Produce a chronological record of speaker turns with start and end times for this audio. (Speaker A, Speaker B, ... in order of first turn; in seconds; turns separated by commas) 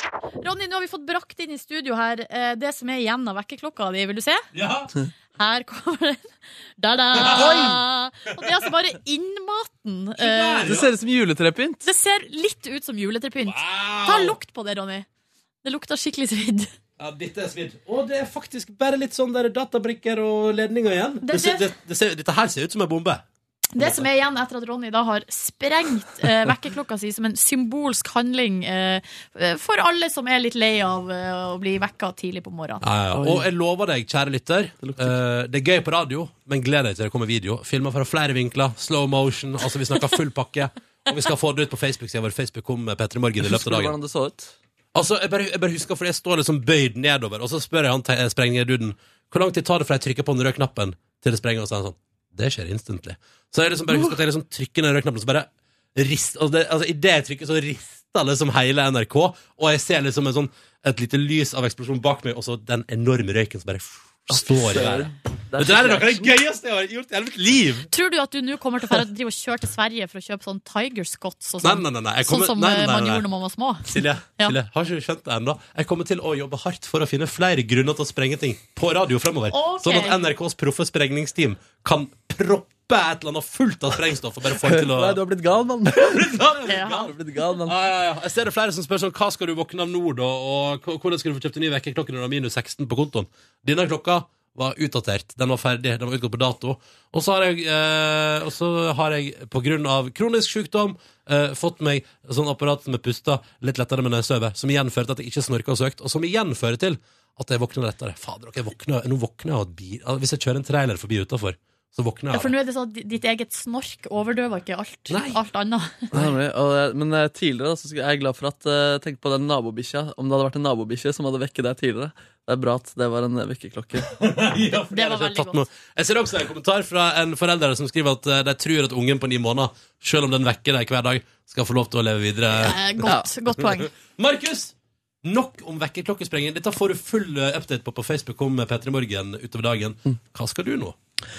Speaker A: 0.4-4.5, Speaker B: 4.5-4.9, Speaker A: 5.4-10.7, Speaker B: 7.2-7.8, Speaker B: 10.2-10.9, Speaker C: 10.7-11.8, Speaker A: 11.8-15.1, Speaker B: 13.4-14.3, Speaker A: 15.6-16.7, Speaker B: 17.0-23.2, Speaker A: 21.2-21.7, Speaker A: 23.7-32.8, Speaker B: 23.8-24.1, Speaker B: 32.8-44.0, Speaker C: 33.1-33.5, Speaker C: 34.8-35.1, Speaker C: 43.5-44.5, Speaker B: 44.9-67.9, Speaker C: 53.9-54.2, Speaker C: 64.3-66.3, Speaker A: 67.9-74.5, Speaker B: 71.6-73.2, Speaker B: 73.9-85.2, Speaker A: 79.5-80.3, Speaker C: 84.6-87.8, Speaker B: 85.9-87.1, Speaker A: 86.7-87.0, Speaker B: 87.6-112.5, Speaker A: 112.3-116.1, Speaker B: 115.1-115.4, Speaker C: 116.1-124.1, Speaker B: 124.1-132.8, Speaker A: 124.9-125.7, Speaker A: 132.5-133.9, Speaker B: 133.9-140.9